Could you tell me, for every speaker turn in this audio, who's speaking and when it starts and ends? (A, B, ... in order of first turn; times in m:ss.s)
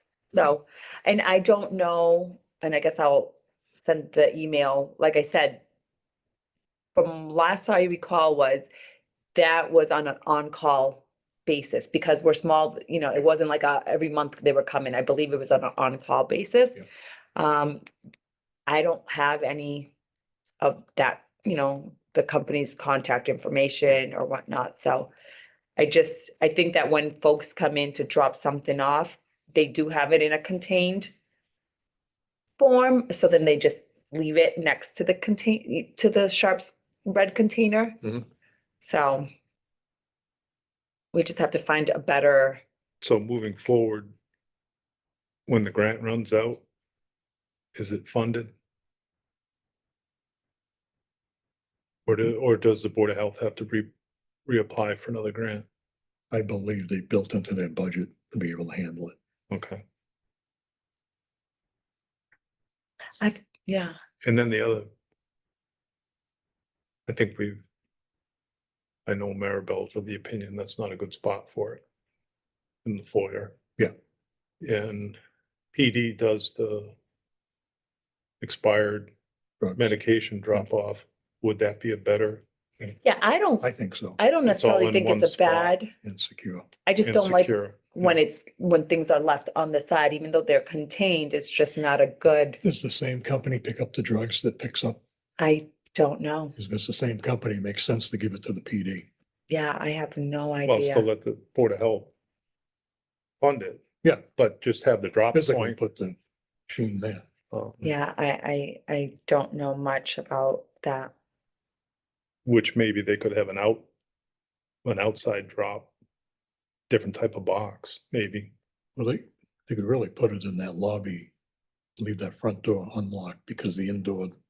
0:00.3-0:05.6 A
0:06.9-0:08.7 A
0:09.3-0:16.8 A
0:17.4-0:17.8 A
0:18.7-0:19.9 A
0:20.6-0:25.1 A
0:25.8-0:31.1 A
0:32.6-0:38.2 A
0:38.8-0:39.2 A
0:41.1-0:42.6 A
0:43.0-0:44.1 B
0:45.5-0:46.6 B
0:47.7-0:48.5 B
0:52.1-0:53.9 B
0:54.4-0:55.6 B
0:56.3-0:59.1 C
0:59.5-0:59.8 B
1:03.2-1:04.0 A
1:04.2-1:04.9 B
1:07.1-1:07.6 B
1:09.0-1:11.8 B
1:12.8-1:13.6 B
1:14.6-1:15.2 B
1:15.7-1:16.9 B
1:18.4-1:19.1 B
1:19.8-1:23.0 B
1:23.0-1:25.9 A
1:23.6-1:24.2 C
1:24.4-1:25.8 B
1:26.0-1:26.7 C
1:26.8-1:32.6 A
1:27.0-1:28.2 B
1:32.6-1:35.0 C
1:35.4-1:36.5 A
1:36.6-1:39.1 C
1:39.5-1:41.0 A
1:40.6-1:42.1 B
1:43.4-1:45.8 B
1:45.3-1:46.2 C
1:46.7-1:47.2 C
1:47.5-1:47.9 B
1:47.8-1:51.1 A
1:52.4-1:53.8 B
1:54.8-1:55.9 B
1:56.9-1:58.5 B
1:59.0-2:01.3 C
2:02.0-2:04.3 C